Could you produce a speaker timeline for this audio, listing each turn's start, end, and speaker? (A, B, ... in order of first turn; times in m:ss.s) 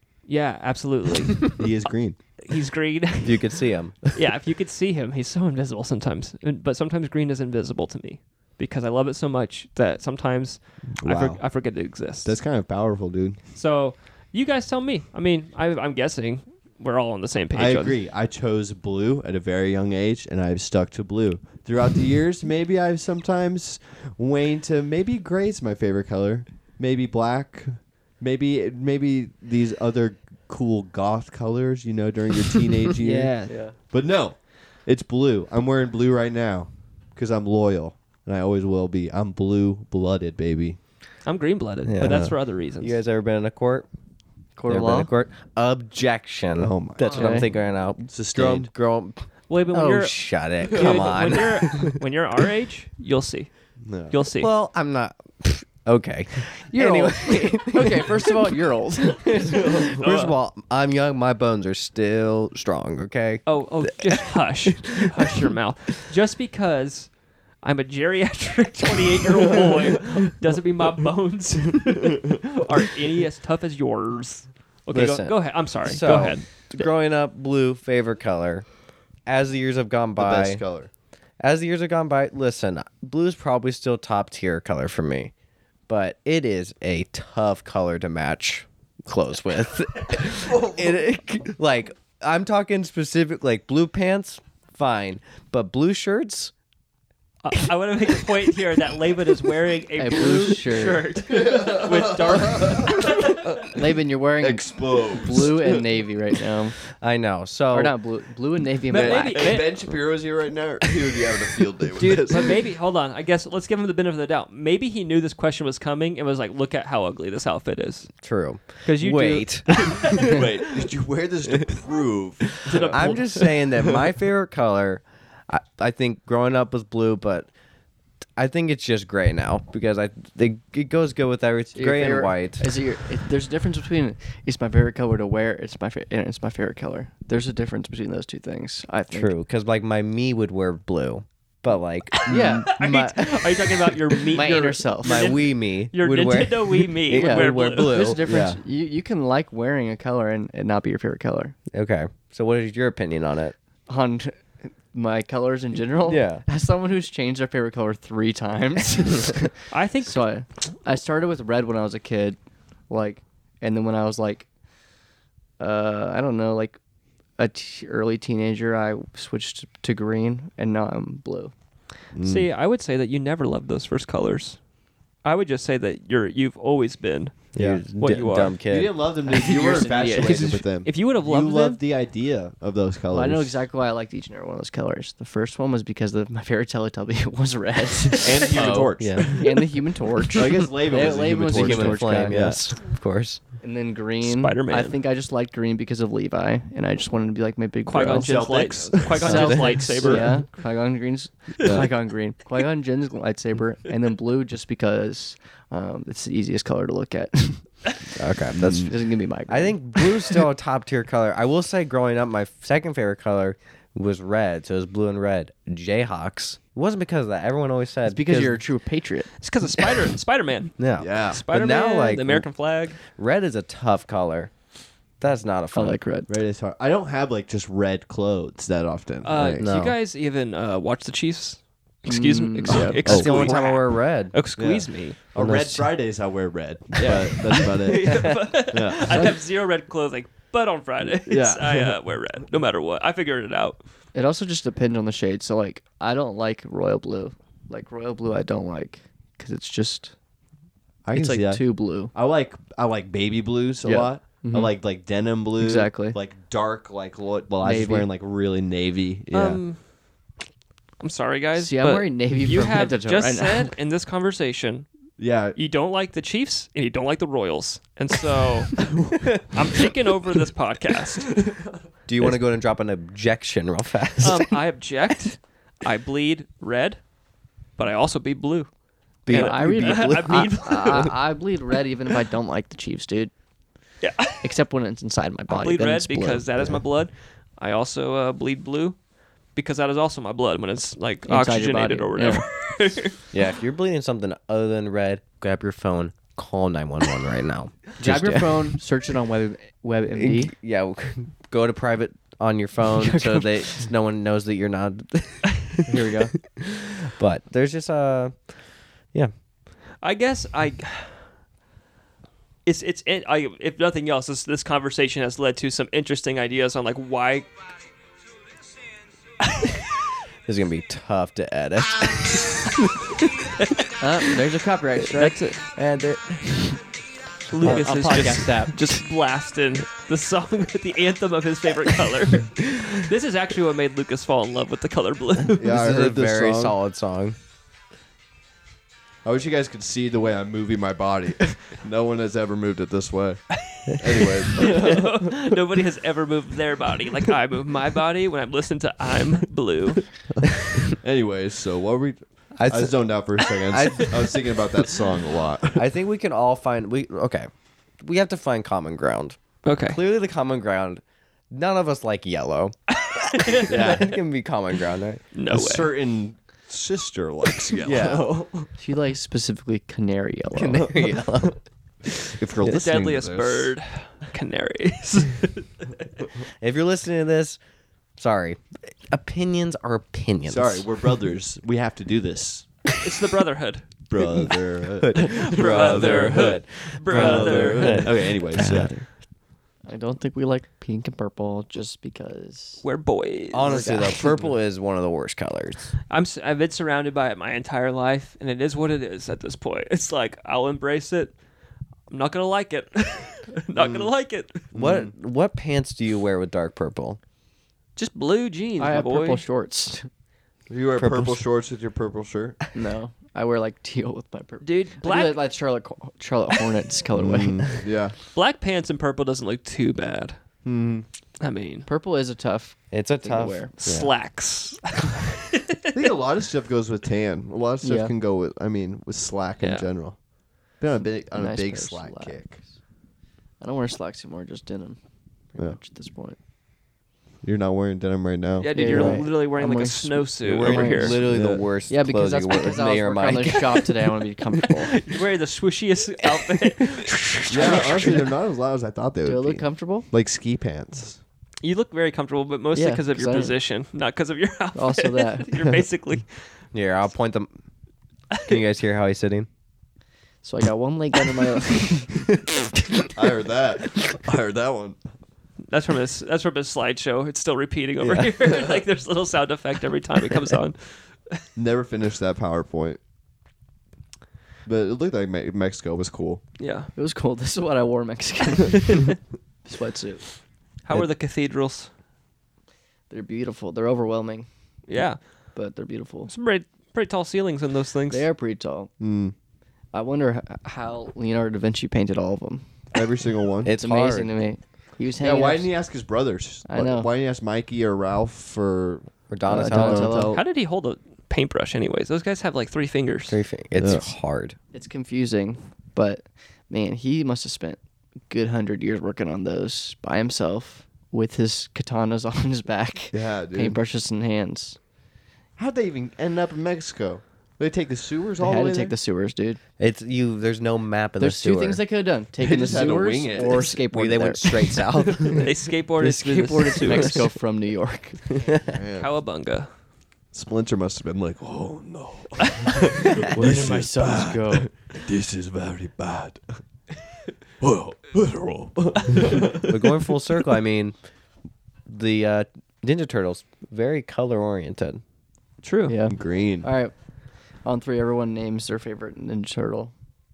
0:00.3-0:01.5 A
0:01.5-0:02.2 B
0:02.5-0:03.6 A
0:03.2-0:04.1 C
0:04.1-0:12.3 A
0:10.9-0:11.4 B
0:12.2-0:13.4 B
0:13.5-0:18.0 A
0:17.5-0:40.8 B
0:33.0-0:33.6 A
0:33.5-0:33.7 C
0:41.2-0:43.0 A
0:41.8-0:43.9 C
0:42.0-0:42.3 B
0:44.6-0:45.1 D
0:44.7-0:51.9 C
0:46.6-0:48.7 B
0:47.0-0:47.5 D
0:49.5-0:53.5 A
0:50.7-0:51.9 B
0:53.8-0:54.1 B
0:54.1-0:54.5 A
0:54.3-1:04.4 C
0:56.7-0:59.6 D
0:59.5-1:00.1 B
1:00.0-1:00.3 A
1:03.4-1:16.4 A
1:05.0-1:05.4 C
1:14.9-1:18.7 C
1:19.2-1:20.6 C
1:20.2-1:20.9 B
1:21.4-1:25.3 C
1:25.9-1:36.5 C
1:30.2-1:31.0 B
1:37.4-1:43.5 A
1:40.0-1:41.1 D
1:41.3-1:43.8 B
1:43.6-1:46.8 D
1:44.4-1:45.8 B
1:47.0-1:47.9 C
1:47.7-1:49.6 D
1:48.9-1:49.9 A
1:48.9-1:52.5 B
1:52.0-1:58.1 A
1:58.2-2:00.2 C
1:58.8-2:00.5 A
2:00.2-2:04.0 B
2:02.6-2:03.4 A
2:02.7-2:07.5 C
2:08.4-2:12.7 C
2:11.7-2:19.3 D
2:19.1-2:28.3 C
2:22.2-2:28.1 A
2:22.3-2:23.2 D
2:24.3-2:25.3 D
2:27.1-2:31.5 D
2:28.2-2:28.6 B
2:31.7-2:33.5 C
2:33.9-2:42.4 D
2:36.1-2:36.4 C
2:39.7-2:40.2 A
2:42.9-2:44.5 D
2:45.6-2:46.8 D
2:47.4-2:51.5 D
2:52.1-2:52.5 B
2:52.2-2:54.6 A
2:55.2-2:58.6 A
2:57.5-2:58.9 C
2:57.5-3:03.5 B
2:59.2-3:00.6 D
3:00.1-3:01.8 A
3:03.1-3:12.4 D
3:08.2-3:09.5 B
3:08.5-3:09.4 C
3:10.3-3:12.6 B
3:10.9-3:13.4 C
3:13.6-3:18.5 D
3:14.2-3:14.9 A
3:17.8-3:20.4 A
3:18.1-3:19.5 B
3:19.2-3:27.9 D
3:19.2-3:20.3 C
3:28.2-3:28.9 C
3:28.6-3:28.9 B
3:28.7-3:30.3 D
3:29.5-3:38.6 C
3:38.0-3:39.3 D
3:39.4-3:43.0 A
3:40.8-3:42.5 C
3:41.0-3:41.4 B
3:43.0-3:44.5 C
3:45.2-3:46.0 C
3:45.7-3:46.3 D
3:46.3-3:49.6 B
3:49.2-3:55.2 A
3:49.6-3:50.0 C
3:52.1-3:53.0 D
3:53.0-3:53.6 B
3:53.0-3:54.4 C
3:54.6-3:59.3 B
3:55.4-3:55.9 C
3:57.0-4:03.8 A
3:58.1-3:58.3 C
4:01.2-4:02.0 B
4:04.1-4:10.1 D
4:11.0-4:19.6 B
4:11.1-4:12.1 D
4:13.8-4:14.7 D
4:15.6-4:16.2 D
4:17.6-4:18.1 D
4:19.3-4:19.8 A
4:21.0-4:24.9 A
4:21.6-4:23.7 D
4:25.2-4:25.6 B
4:25.5-4:31.4 A
4:32.1-4:34.6 C
4:34.2-4:37.0 A
4:37.8-4:38.7 A
4:39.2-4:41.1 C
4:39.2-4:41.2 A
4:39.3-4:43.3 D
4:44.0-4:44.5 A
4:44.4-4:46.4 D
4:45.5-4:49.0 A
4:49.5-4:53.2 A
4:51.2-4:52.4 D
4:53.3-4:58.8 C
4:58.0-5:00.5 D
5:00.1-5:05.9 C
5:03.0-5:03.8 D
5:05.8-5:06.3 D
5:06.5-5:08.4 C
5:10.0-5:11.2 A
5:12.6-5:17.5 A
5:20.4-5:22.7 C
5:24.0-5:26.8 D
5:25.2-5:25.6 A
5:27.5-5:35.6 A
5:27.6-5:28.9 D
5:35.6-5:36.8 B
5:35.6-5:37.4 C
5:39.2-5:45.4 B
5:43.7-5:50.1 A
5:50.6-5:55.8 B
5:52.6-5:53.1 C
5:53.7-5:54.3 C
5:55.7-5:57.5 C
5:58.0-6:02.7 C
5:59.6-6:00.0 A
6:02.9-6:04.1 A
6:03.4-6:05.2 C
6:03.7-6:04.2 B
6:05.3-6:05.9 A
6:05.5-6:08.7 B
6:07.8-6:08.3 C
6:08.8-6:10.9 D
6:10.5-6:11.6 C
6:12.3-6:13.7 B
6:12.6-6:15.9 A
6:16.6-6:17.6 C
6:18.2-6:20.8 C
6:20.5-6:22.7 B
6:23.0-6:23.8 A
6:24.1-6:28.9 B
6:24.2-6:29.0 C
6:25.1-6:28.2 A
6:28.6-6:28.9 D
6:29.8-6:32.8 D
6:32.8-6:34.2 A
6:33.5-6:35.9 C
6:33.6-6:34.4 D
6:36.1-6:41.3 A
6:42.1-6:44.6 A
6:43.8-6:44.1 B
6:44.7-6:45.1 B
6:44.7-6:47.2 C
6:48.0-6:49.4 A
6:48.8-6:50.1 D
6:50.7-6:52.6 B
6:51.0-6:51.4 C
6:52.7-6:57.8 D
6:54.6-6:55.4 A
6:57.2-6:58.1 B
6:58.3-7:00.4 A
7:00.6-7:01.0 B
7:01.4-7:01.9 A
7:01.8-7:03.7 D
7:02.9-7:04.1 C
7:03.8-7:05.9 A
7:05.9-7:10.2 B
7:07.8-7:08.1 D
7:09.6-7:09.9 A
7:10.8-7:12.6 B
7:11.3-7:12.6 D
7:13.6-7:15.0 D
7:15.5-7:16.4 D
7:17.4-7:19.1 B
7:18.6-7:21.2 A
7:18.7-7:21.2 D
7:18.8-7:19.2 C
7:20.4-7:23.8 C
7:21.2-7:21.6 B
7:21.9-7:24.9 D
7:24.8-7:28.3 A
7:27.5-7:31.2 B
7:29.2-7:30.1 D
7:31.6-7:36.4 A
7:32.7-7:33.6 D
7:34.7-7:35.6 D
7:36.7-7:37.5 C
7:38.3-7:38.6 A
7:38.4-7:39.5 C
7:40.4-7:42.2 D
7:43.1-7:45.0 B
7:45.7-7:51.4 A
7:48.0-7:48.3 C
7:51.6-7:53.0 B
7:54.6-7:56.4 B
7:56.6-7:56.9 A
7:57.0-8:00.3 D
8:00.8-8:01.9 A
8:03.1-8:04.5 D
8:04.9-8:05.2 A
8:05.5-8:06.3 D
8:06.3-8:08.2 A
8:08.1-8:08.9 D
8:09.0-8:09.3 B
8:09.9-8:12.6 D
8:12.9-8:13.7 B
8:13.6-8:14.3 C
8:13.7-8:15.7 D
8:15.2-8:20.3 B
8:16.6-8:17.1 D
8:19.3-8:20.2 C
8:19.5-8:20.4 D
8:20.3-8:23.4 A
8:23.3-8:24.6 C
8:23.8-8:24.0 B
8:24.7-8:27.8 D
8:28.3-8:34.8 D
8:33.1-8:33.8 B
8:35.6-8:38.9 B
8:38.4-8:39.6 D
8:39.8-8:41.8 C
8:41.2-8:45.3 D
8:42.4-8:43.8 B
8:43.9-8:45.4 C
8:45.3-8:47.3 A
8:46.0-8:48.5 D
8:48.7-8:49.1 B
8:49.0-8:49.7 A
8:50.3-8:56.6 B
8:53.3-8:54.7 D
8:57.6-9:00.0 B
8:59.6-9:00.9 C
9:01.8-9:05.0 C
9:05.6-9:06.0 A
9:05.9-9:06.9 D
9:06.1-9:06.7 B
9:07.6-9:09.9 D